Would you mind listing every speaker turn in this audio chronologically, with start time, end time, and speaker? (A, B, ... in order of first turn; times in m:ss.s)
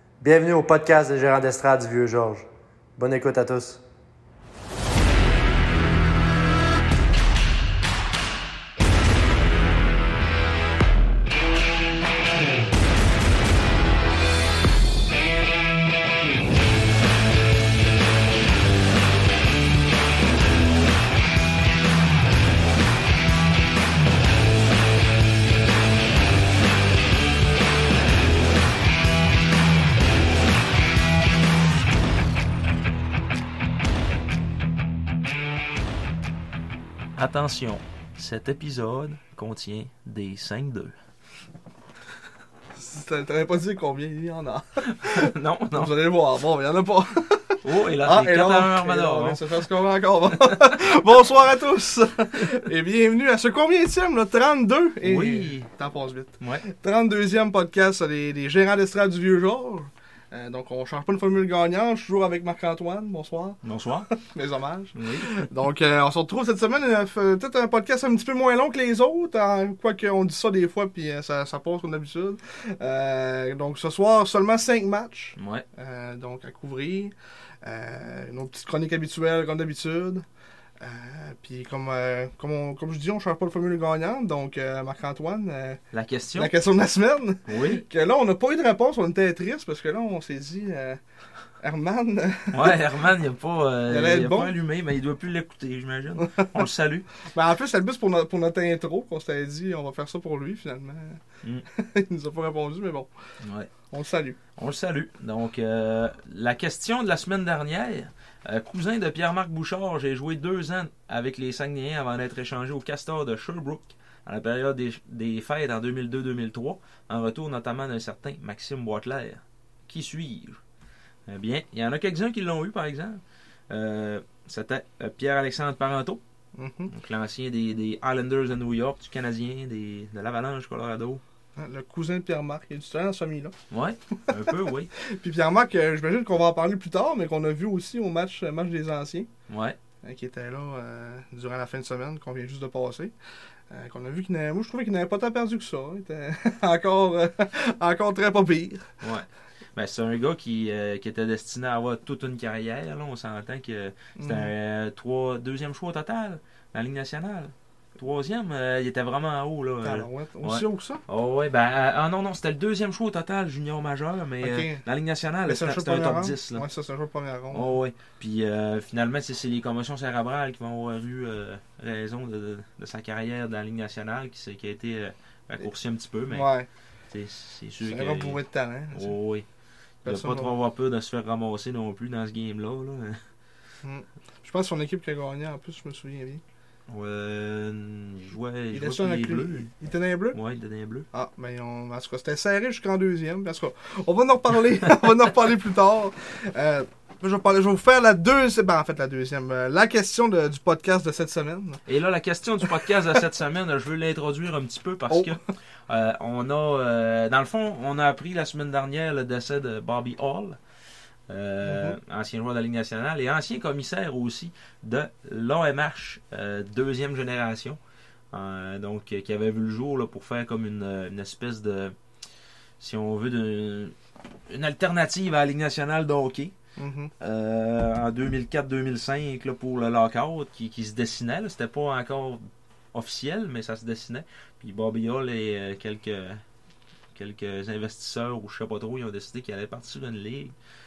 0:00.2-0:02.5 A
0:03.0-0:03.8 A
0:37.2-0:40.9 B
0:42.8-1:03.6 C
0:44.8-0:45.9 B
0:47.6-0:49.4 B
0:55.0-0:55.7 B
0:56.4-0:56.6 B
1:03.6-1:04.1 B
1:04.1-1:20.2 C
1:05.0-1:05.4 B
1:15.4-1:15.6 B
1:20.8-1:25.8 C
1:25.9-1:26.5 B
1:26.4-1:31.0 C
1:27.5-1:27.8 B
1:31.6-1:32.8 C
1:32.5-1:37.1 B
1:33.9-1:34.6 C
1:36.2-1:36.7 C
1:37.2-1:43.1 C
1:43.4-1:43.7 B
1:43.9-1:44.4 C
1:44.6-2:00.6 B
2:01.3-2:06.2 B
2:06.6-2:06.9 C
2:06.9-2:11.2 B
2:11.6-2:13.5 C
2:13.7-2:14.9 B
2:14.3-2:19.3 C
2:19.5-2:19.8 B
2:20.0-2:23.1 C
2:23.7-2:28.9 C
2:29.0-2:46.7 B
2:34.2-2:34.5 C
2:39.8-2:41.0 C
2:44.4-2:44.8 C
2:45.5-2:47.8 C
2:47.5-2:56.5 B
2:56.3-2:56.7 C
2:57.1-2:58.4 B
2:57.8-2:59.2 C
2:58.9-2:59.4 B
3:00.0-3:03.2 B
3:00.0-3:00.5 C
3:03.8-3:06.4 C
3:06.9-3:09.7 B
3:08.7-3:10.4 C
3:10.3-3:11.1 B
3:11.1-3:21.8 C
3:21.9-3:30.6 B
3:25.1-3:25.4 C
3:31.3-3:37.8 B
3:31.6-3:32.0 C
3:38.3-3:42.0 B
3:42.8-3:44.0 B
3:44.5-3:46.5 B
3:46.8-3:47.1 C
3:47.2-3:52.4 B
3:52.9-3:56.4 B
3:57.2-4:00.5 B